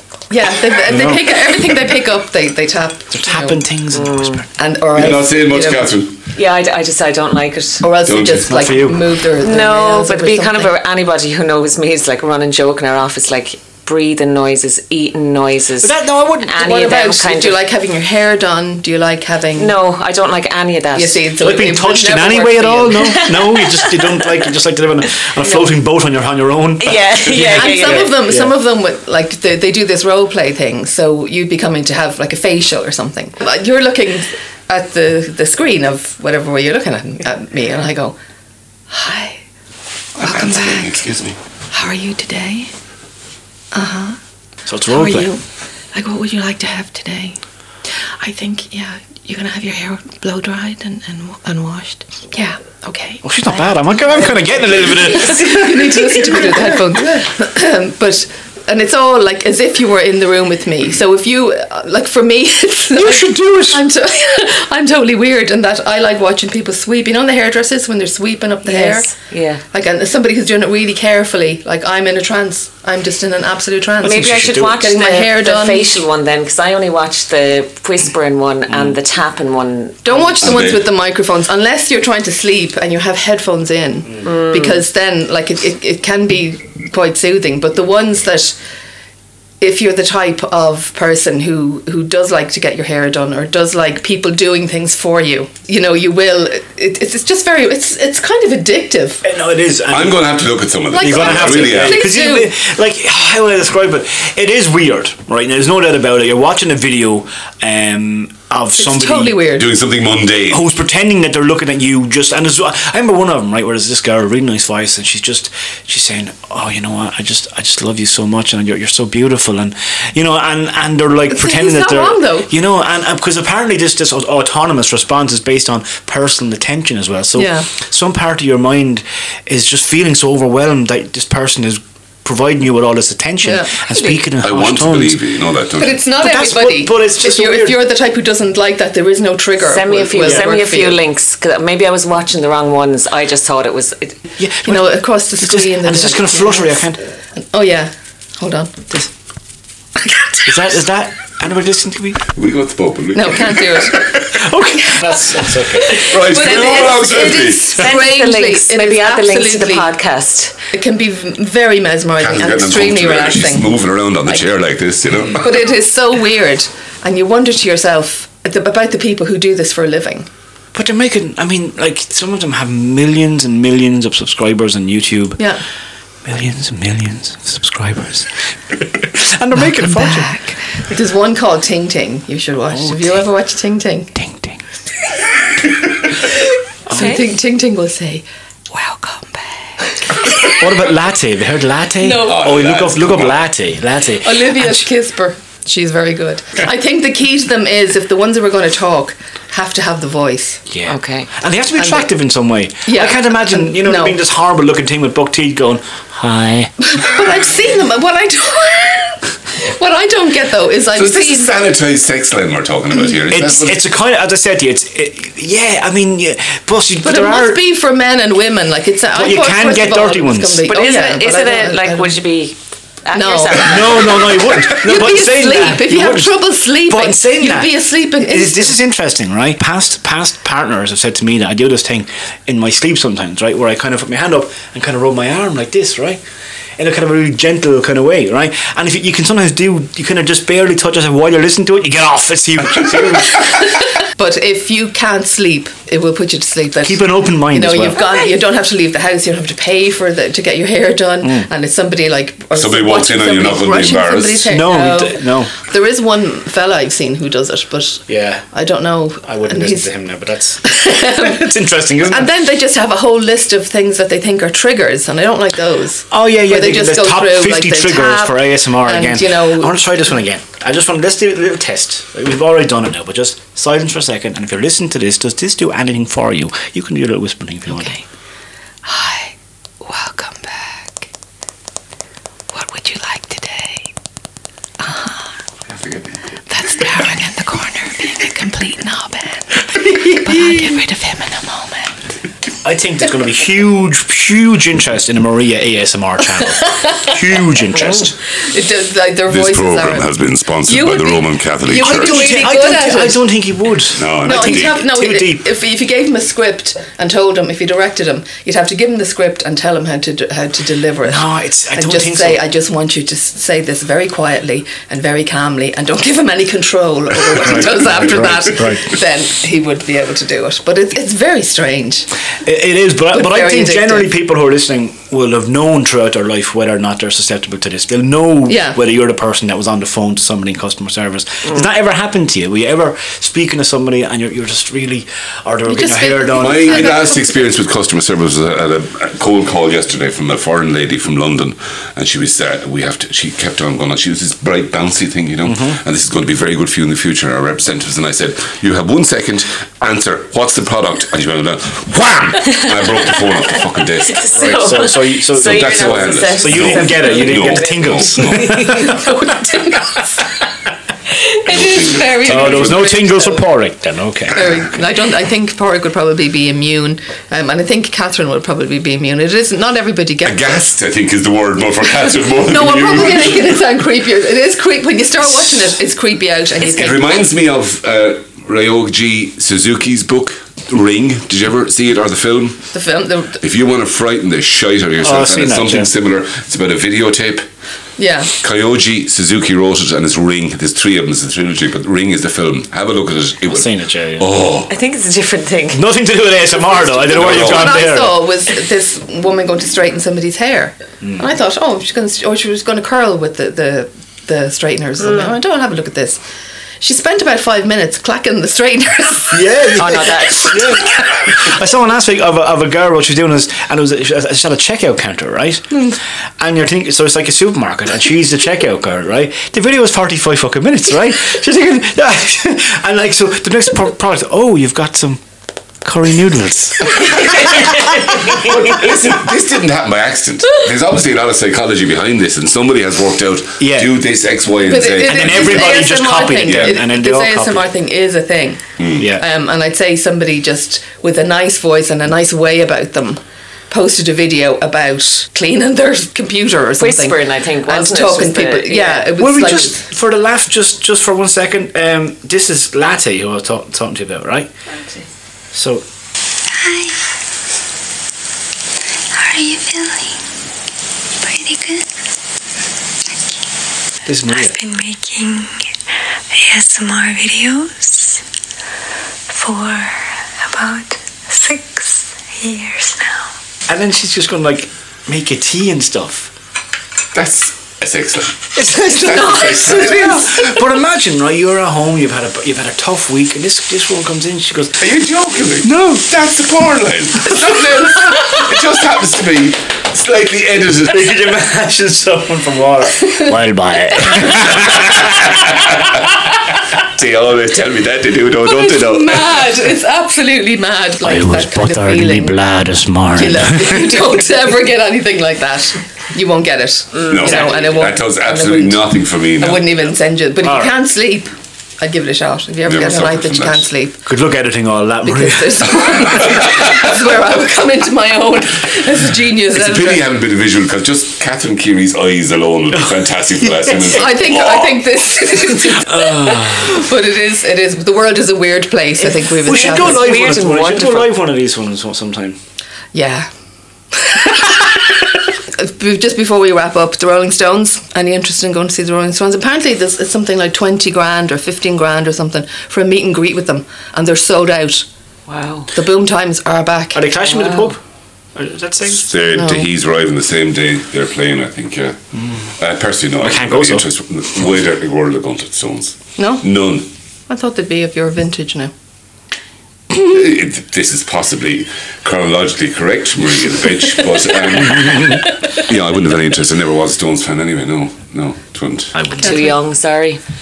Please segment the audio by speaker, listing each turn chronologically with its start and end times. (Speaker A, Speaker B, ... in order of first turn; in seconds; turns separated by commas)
Speaker A: 0.3-3.6, Speaker B: 0.9-1.3, Speaker B: 3.1-5.2, Speaker C: 3.9-4.4, Speaker A: 4.6-5.9, Speaker D: 5.0-6.3, Speaker C: 6.3-7.9, Speaker A: 7.8-10.7, Speaker D: 8.1-8.8, Speaker B: 8.5-9.1, Speaker C: 9.4-17.6, Speaker B: 15.8-16.6, Speaker A: 16.6-19.8, Speaker C: 19.6-21.2, Speaker A: 20.9-23.3, Speaker B: 21.4-28.6, Speaker C: 23.4-24.0, Speaker C: 26.8-28.2, Speaker A: 27.6-38.1, Speaker A: 38.9-39.4, Speaker D: 40.2-41.4, Speaker A: 40.2-41.0, Speaker A: 41.7-42.7, Speaker A: 43.7-44.2, Speaker B: 44.7-45.3, Speaker A: 44.9-45.4, Speaker A: 45.9-47.4, Speaker A: 48.2-69.1, Speaker B: 53.2-57.0, Speaker B: 63.0-63.8, Speaker C: 68.7-69.6, Speaker A: 69.7-75.9, Speaker B: 74.0-74.7, Speaker C: 74.0-80.6, Speaker A: 80.0-88.5, Speaker D: 80.4-80.9, Speaker C: 84.2-84.8, Speaker A: 89.6-99.2, Speaker B: 99.2-100.4, Speaker D: 99.9-102.0, Speaker A: 100.9-102.5, Speaker B: 101.0-109.4, Speaker A: 108.8-109.7, Speaker D: 109.5-110.6, Speaker B: 110.5-135.2, Speaker A: 121.3-122.5, Speaker A: 127.3-127.7, Speaker A: 133.4-133.7, Speaker D: 134.4-136.0, Speaker A: 135.8-141.0, Speaker B: 136.2-137.8, Speaker C: 139.6-144.2, Speaker B: 140.2-140.5, Speaker B: 144.4-147.0, Speaker A: 144.7-146.8, Speaker A: 147.4-148.9, Speaker A: 150.0-150.7, Speaker B: 150.5-152.3, Speaker D: 152.3-153.9, Speaker A: 153.1-154.3, Speaker B: 154.1-156.1, Speaker A: 154.8-155.2, Speaker A: 155.8-159.9, Speaker D: 155.9-157.8, Speaker C: 157.8-160.6, Speaker A: 160.7-163.7, Speaker D: 162.2-165.4, Speaker A: 165.3-170.3, Speaker B: 170.7-175.4, Speaker B: 176.2-180.3, Speaker A: 179.8-184.1, Speaker B: 182.7-183.2, Speaker B: 184.2-184.6, Speaker A: 186.9-190.6, Speaker B: 186.9-187.2, Speaker C: 186.9-187.2, Speaker B: 190.4-194.9, Speaker A: 192.0-192.4, Speaker D: 192.2-193.4, Speaker A: 194.2-200.6, Speaker B: 200.7-206.7, Speaker C: 200.9-201.3, Speaker A: 201.8-202.1, Speaker A: 202.8-204.2, Speaker A: 206.9-211.5, Speaker D: 210.9-213.8, Speaker B: 213.3-217.6, Speaker A: 217.0-222.2, Speaker B: 219.1-220.7, Speaker C: 220.7-224.1, Speaker A: 223.1-228.8, Speaker B: 223.6-236.2, Speaker B: 236.8-243.5, Speaker A: 243.4-259.9, Speaker B: 246.8-248.1, Speaker B: 251.2-251.5, Speaker D: 252.5-254.5, Speaker B: 254.5-255.5, Speaker B: 258.1-258.5, Speaker B: 259.2-262.3, Speaker A: 260.6-270.2, Speaker B: 266.1-278.0, Speaker A: 277.7-278.0, Speaker A: 278.8-281.1, Speaker A: 282.5-283.9, Speaker A: 284.8-285.3, Speaker A: 286.5-291.9, Speaker B: 289.8-290.7, Speaker B: 292.6-298.2, Speaker A: 298.3-300.1, Speaker D: 299.3-302.4, Speaker A: 300.7-303.3, Speaker B: 301.7-305.5, Speaker D: 304.0-304.8, Speaker A: 304.2-322.1, Speaker B: 311.0-312.4, Speaker B: 317.3-318.9, Speaker B: 322.4-337.0, Speaker A: 323.1-324.1, Speaker A: 328.5-328.8, Speaker A: 335.7-337.5, Speaker D: 336.4-354.6, Speaker B: 345.4-345.8, Speaker C: 354.1-358.5, Speaker B: 354.3-359.2, Speaker D: 355.4-358.5, Speaker A: 358.6-360.3, Speaker A: 361.1-363.5, Speaker D: 361.5-363.0, Speaker B: 362.2-364.6, Speaker A: 364.3-370.6, Speaker D: 370.2-373.6, Speaker A: 372.5-377.0, Speaker D: 376.6-382.7, Speaker A: 382.7-383.4, Speaker D: 383.4-387.5, Speaker B: 385.0-385.9, Speaker A: 388.0-388.3, Speaker D: 388.4-394.7, Speaker B: 393.5-394.3, Speaker C: 394.7-395.8, Speaker B: 395.7-398.2, Speaker D: 397.1-397.8, Speaker A: 397.1-406.2, Speaker C: 405.0-405.3, Speaker A: 406.8-409.7, Speaker B: 409.3-425.2, Speaker C: 409.8-410.8, Speaker B: 425.8-428.5, Speaker D: 428.3-436.8, Speaker B: 433.6-433.9, Speaker A: 434.6-449.9, Speaker B: 435.1-437.7, Speaker D: 438.8-439.0, Speaker B: 439.0-439.3, Speaker C: 446.8-449.1, Speaker B: 448.8-454.5, Speaker C: 454.7-455.1, Speaker B: 455.5-455.9, Speaker E: 456.5-457.1, Speaker E: 459.1-460.3, Speaker E: 461.2-462.0, Speaker E: 463.1-463.4, Speaker B: 464.1-464.6, Speaker E: 464.2-465.7, Speaker E: 466.3-468.2, Speaker E: 469.3-473.3, Speaker B: 473.7-476.3, Speaker D: 477.1-478.5, Speaker B: 478.6-484.8, Speaker A: 478.9-480.4, Speaker D: 479.1-480.2, Speaker D: 484.8-491.2, Speaker B: 485.6-486.0, Speaker B: 490.9-495.5, Speaker D: 494.3-496.2, Speaker D: 496.7-499.6, Speaker A: 498.5-502.4, Speaker B: 501.0-504.1, Speaker A: 503.1-514.0, Speaker C: 506.9-507.4, Speaker D: 507.1-509.7, Speaker B: 510.4-510.7, Speaker D: 512.6-513.7, Speaker B: 514.1-516.3, Speaker A: 515.0-520.0, Speaker D: 516.3-516.8, Speaker D: 519.5-524.9, Speaker B: 523.4-524.0, Speaker A: 523.9-530.3, Speaker B: 525.7-526.9, Speaker B: 529.4-532.4, Speaker C: 529.6-531.1, Speaker A: 532.9-533.3, Speaker A: 533.9-544.9, Speaker C: 545.3-545.7, Speaker A: 545.7-547.2, Speaker B: 546.9-547.8, Speaker B: 548.4-549.1, Speaker D: 548.9-556.9, Speaker A: 549.4-549.7, Speaker B: 552.2-552.5, Speaker B: 553.2-553.9, Speaker A: 556.2-556.5, Speaker A: 557.3-558.7, Speaker D: 560.0-568.9, Speaker B: 564.7-565.2, Speaker B: 568.9-569.5, Speaker C: 569.2-570.2, Speaker A: 569.2-569.5